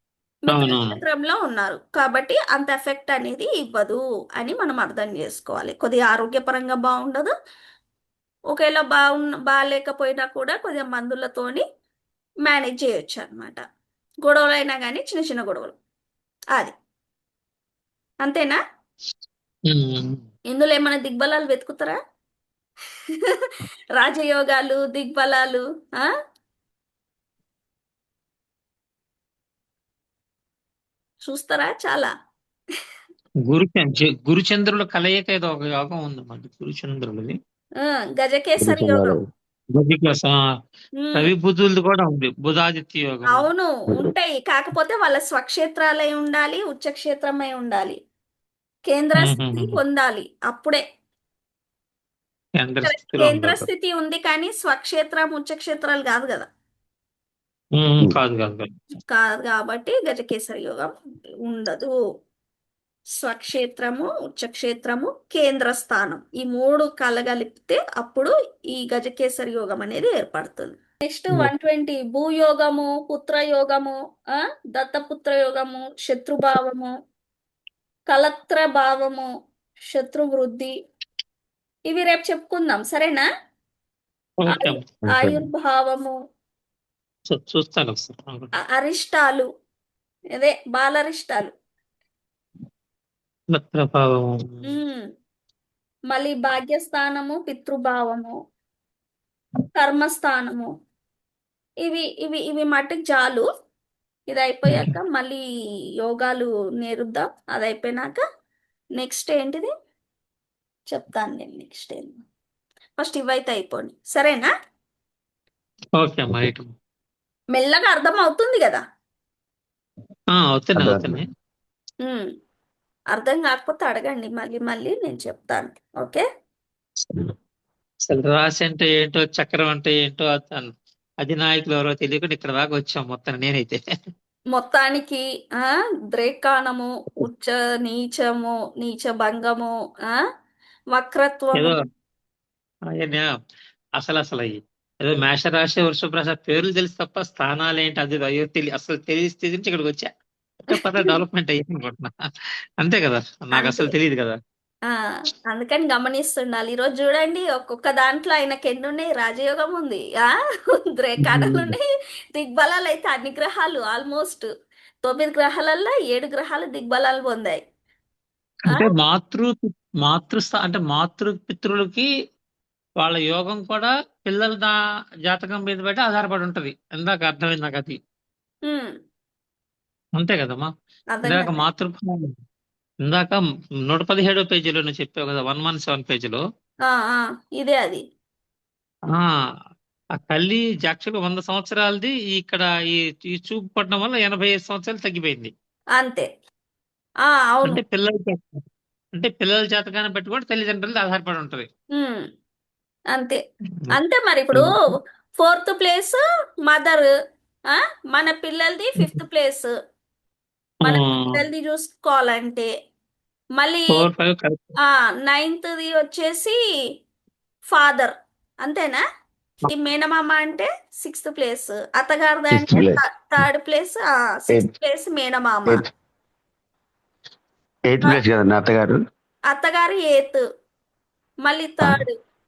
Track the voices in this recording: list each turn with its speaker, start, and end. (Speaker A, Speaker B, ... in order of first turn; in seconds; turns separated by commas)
Speaker A: 0.5-7.3, Speaker B: 0.5-0.9, Speaker A: 8.5-11.6, Speaker A: 12.4-13.6, Speaker A: 14.2-15.7, Speaker A: 18.2-18.6, Speaker B: 19.7-20.2, Speaker A: 20.5-22.0, Speaker A: 23.2-26.1, Speaker A: 31.2-32.1, Speaker B: 33.5-37.3, Speaker A: 37.8-39.2, Speaker C: 38.6-39.2, Speaker B: 39.7-40.4, Speaker A: 41.0-41.3, Speaker B: 41.1-43.5, Speaker A: 43.3-48.0, Speaker A: 48.9-50.8, Speaker B: 49.2-49.8, Speaker B: 52.6-53.7, Speaker A: 52.8-56.5, Speaker B: 57.8-58.7, Speaker A: 59.1-60.9, Speaker A: 61.5-61.9, Speaker A: 63.2-73.9, Speaker A: 74.7-76.9, Speaker A: 78.1-79.3, Speaker A: 79.9-80.7, Speaker A: 81.9-83.2, Speaker B: 84.4-84.8, Speaker A: 84.5-86.1, Speaker C: 85.0-85.4, Speaker B: 87.3-88.5, Speaker A: 88.7-89.4, Speaker A: 90.3-91.5, Speaker B: 93.5-94.7, Speaker A: 94.7-95.0, Speaker A: 96.1-98.3, Speaker A: 99.8-100.7, Speaker A: 101.8-103.4, Speaker A: 104.3-105.4, Speaker A: 106.0-108.2, Speaker A: 109.0-109.7, Speaker A: 110.9-112.2, Speaker A: 113.0-114.5, Speaker B: 116.0-116.7, Speaker A: 117.5-118.8, Speaker B: 120.3-121.3, Speaker C: 120.7-121.2, Speaker A: 123.1-126.2, Speaker B: 128.1-130.7, Speaker B: 131.2-133.8, Speaker A: 134.5-140.2, Speaker A: 140.9-141.7, Speaker B: 143.0-143.3, Speaker B: 144.0-150.1, Speaker B: 150.7-152.1, Speaker A: 150.7-151.2, Speaker B: 152.8-154.4, Speaker A: 153.6-153.9, Speaker A: 154.9-160.3, Speaker A: 160.9-161.8, Speaker B: 161.2-161.7, Speaker A: 162.3-164.5, Speaker A: 165.0-167.6, Speaker B: 168.7-172.1, Speaker B: 173.0-174.7, Speaker B: 175.3-178.0, Speaker B: 180.2-180.7, Speaker A: 181.1-181.6, Speaker B: 181.2-182.3, Speaker B: 183.1-186.4, Speaker A: 186.9-188.0, Speaker B: 190.2-195.5, Speaker A: 196.0-196.3, Speaker A: 197.3-197.8, Speaker B: 197.7-198.6, Speaker B: 199.2-201.7, Speaker A: 201.9-202.2, Speaker A: 203.1-203.4, Speaker A: 203.9-204.7, Speaker A: 205.4-207.1, Speaker A: 207.7-209.7, Speaker B: 210.8-211.4, Speaker A: 210.8-212.7, Speaker A: 213.6-214.0, Speaker B: 213.9-214.6, Speaker A: 214.8-216.6, Speaker A: 217.7-218.1, Speaker A: 218.6-219.0, Speaker A: 219.6-225.8, Speaker C: 222.5-223.0, Speaker C: 227.9-229.0, Speaker A: 229.5-230.4, Speaker A: 231.4-232.1